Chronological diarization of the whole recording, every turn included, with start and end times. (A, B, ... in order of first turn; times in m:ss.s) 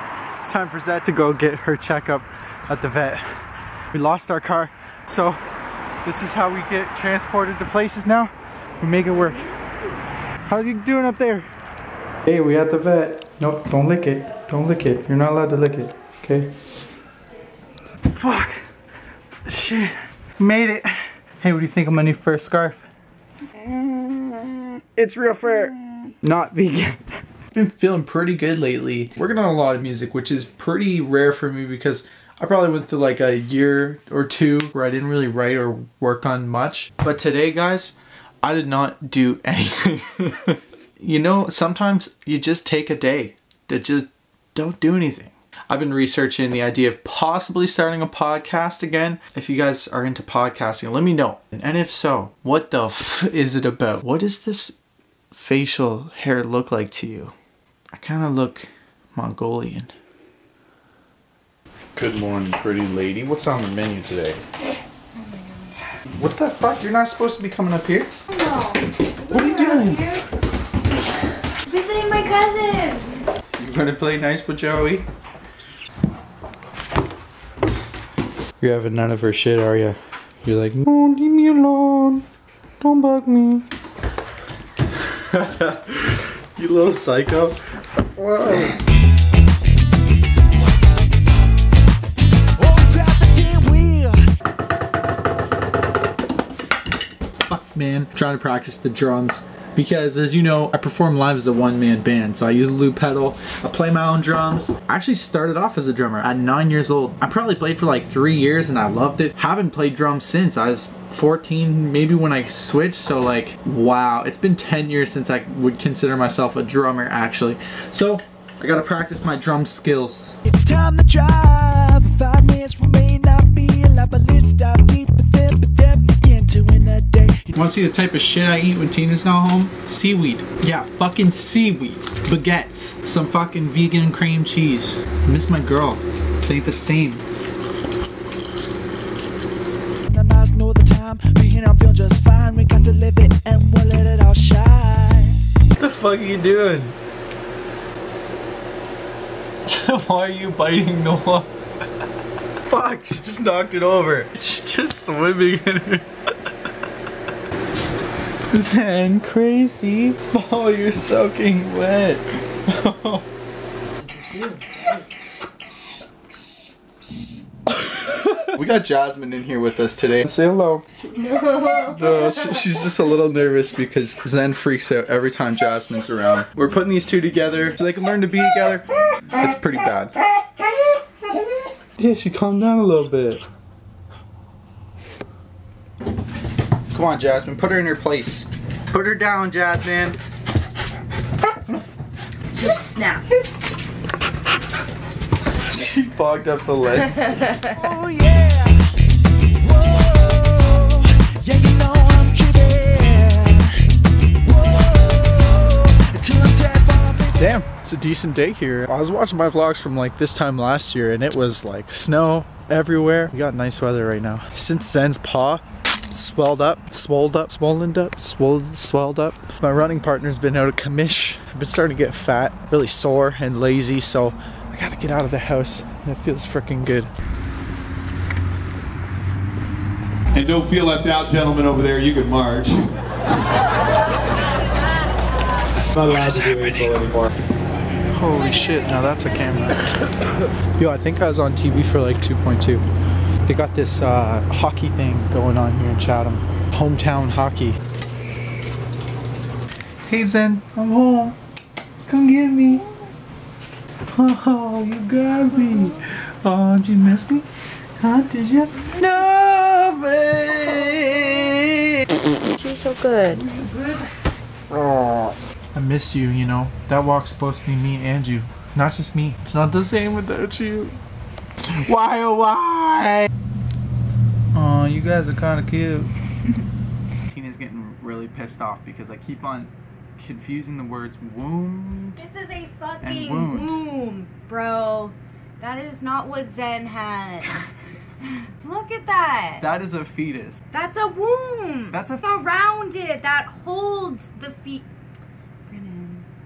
0:00.4-0:03.4 A
0:03.9-0:05.4 A
0:06.0-0:09.5 A
0:10.5-0:11.5 A
0:12.3-0:16.5 A
0:18.1-0:18.6 A
0:19.5-0:22.9 A
0:23.6-0:54.8 A
0:55.3-0:57.3 A
0:57.9-0:59.9 A
1:02.0-1:04.4 A
1:05.2-1:05.7 B
1:06.2-1:08.1 A
1:08.3-1:10.2 B
1:09.3-1:10.2 A
1:11.7-1:13.2 B
1:13.6-1:15.1 A
1:18.6-1:22.2 A
1:22.8-1:23.7 A
1:25.1-1:28.8 A
1:32.6-1:34.2 C
1:37.5-2:00.4 A
2:00.5-2:07.5 C
2:07.5-2:17.2 A
2:20.1-2:25.4 C
2:25.8-2:27.0 A
2:29.7-2:31.5 A
2:32.7-2:36.0 A
2:38.5-2:43.2 A
2:47.9-2:50.9 A
2:51.2-2:51.7 B
2:51.7-3:00.2 A
3:02.0-3:03.4 A
3:06.9-3:10.2 A
3:12.5-3:13.3 B
3:15.5-3:17.6 A
3:17.4-3:17.7 B
3:17.7-3:18.8 C
3:19.6-3:23.8 C
3:24.4-3:27.6 C
3:27.4-3:47.1 A
3:50.3-3:52.9 D
3:55.9-3:57.3 D
3:56.0-3:57.0 A
3:58.1-3:59.9 A
4:00.8-4:02.8 A
4:03.4-4:07.8 A
4:10.1-4:11.4 A
4:12.1-4:12.9 A
4:14.1-4:17.5 A
4:18.0-4:22.2 A
4:22.6-4:23.4 B
4:23.2-4:24.1 A
4:24.7-4:31.0 A
4:31.7-4:33.3 A
4:34.5-4:36.1 A
4:37.3-4:42.2 A
4:42.2-4:47.7 B
4:43.0-4:43.8 A
4:48.2-4:49.6 B
4:49.6-4:50.6 A
4:50.7-4:54.9 B
4:51.9-4:52.4 A
4:55.7-4:56.3 B